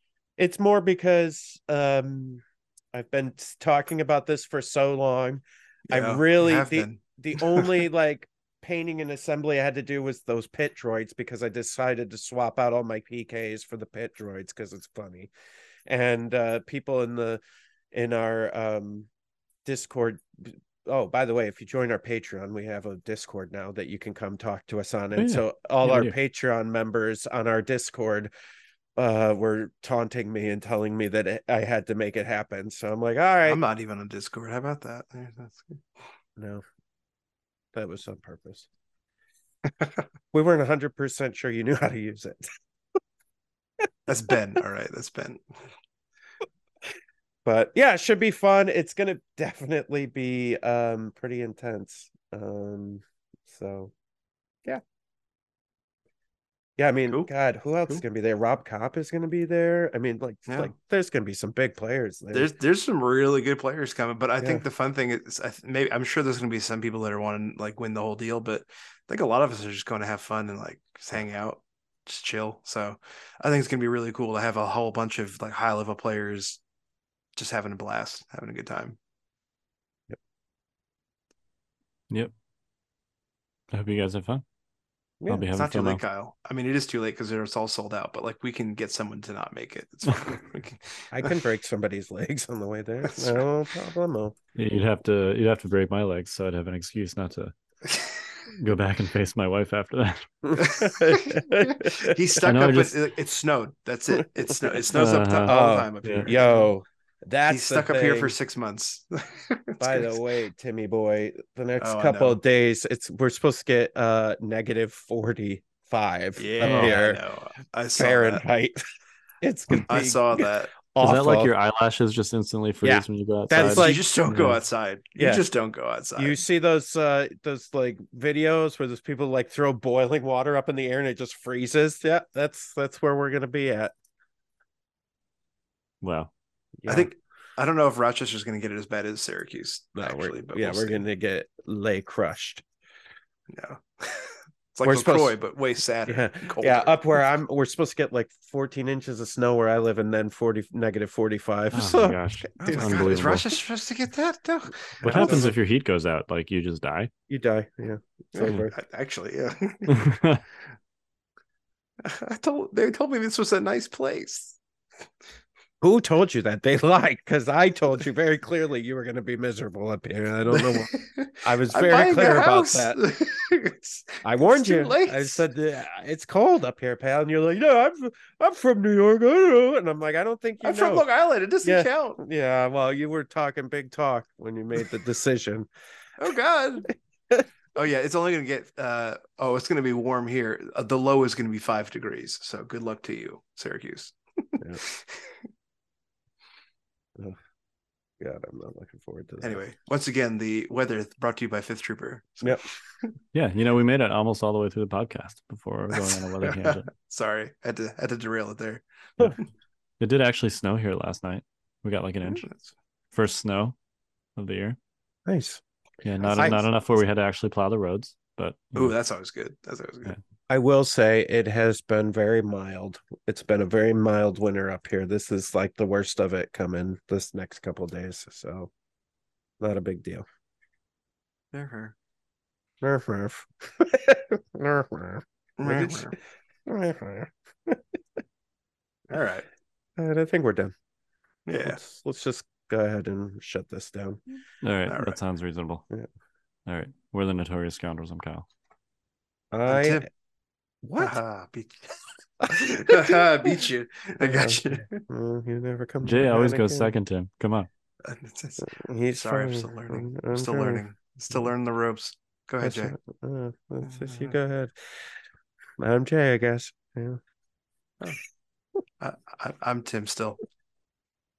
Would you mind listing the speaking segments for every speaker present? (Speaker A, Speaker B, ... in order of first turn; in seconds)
Speaker A: 0.4-15.3, 15.9-17.4, 17.9-19.1, 19.6-28.3, 29.0-33.6, 36.4-36.6, 37.7-38.7, 40.3-42.5, 47.5-53.9, 56.8-62.5, 85.2-85.5, 91.1-94.4, 100.4-102.2, 105.5-108.3, 109.8-117.2, 118.0-118.8, 119.4-121.5, 122.8-124.0, 125.2-125.4, 126.2-133.9, 136.8-137.1, 140.0-142.6, 144.8-145.4, 146.1-153.2, 155.1-155.5, 157.3-158.7, 165.8-173.0, 174.2-181.1, 181.6-185.7, 198.2-199.6, 215.3-215.6, 220.5-228.7, 229.6-230.2, 232.8-236.1, 236.7-237.8, 240.0-240.7, 241.6-244.2, 249.5-250.1, 250.8-251.2, 252.4-253.2, 254.2-256.9, 258.6-260.8, 262.6-265.1, 265.8-267.2
Speaker B: 5.9-7.8, 33.5-35.8, 44.1-45.4, 62.3-76.6, 77.4-79.0, 85.5-91.3, 93.1-93.4, 97.9-98.4, 100.6-106.7, 107.5-110.2, 111.8-112.4, 116.4-118.4, 119.9-120.8, 123.6-126.4, 136.9-141.0, 143.5-147.2, 152.6-155.5, 158.3-160.1, 162.0-164.6, 170.5-175.4, 180.6-182.2, 186.2-186.9, 187.8-195.3, 199.4-203.1, 205.9-209.4, 212.2-212.6, 216.2-216.6, 218.8-220.2, 231.5-231.9, 235.6-236.2, 239.1-239.5, 241.5-241.8, 244.9-245.2, 249.7-250.1, 251.0-255.0, 258.0-262.9, 263.9-264.4, 269.0-270.4
Speaker C: 25.2-26.1, 83.7-84.4, 85.3-86.0, 94.5-97.5, 98.5-100.3, 102.5-103.0, 104.9-106.3, 116.6-117.0, 121.0-124.6, 136.0-136.3, 151.7-153.5, 155.0-157.1, 159.9-160.4, 203.3-206.9, 210.0-212.5, 213.1-213.8, 214.4-214.8, 216.0-218.9, 244.6-245.8, 246.7-248.5, 256.0-257.7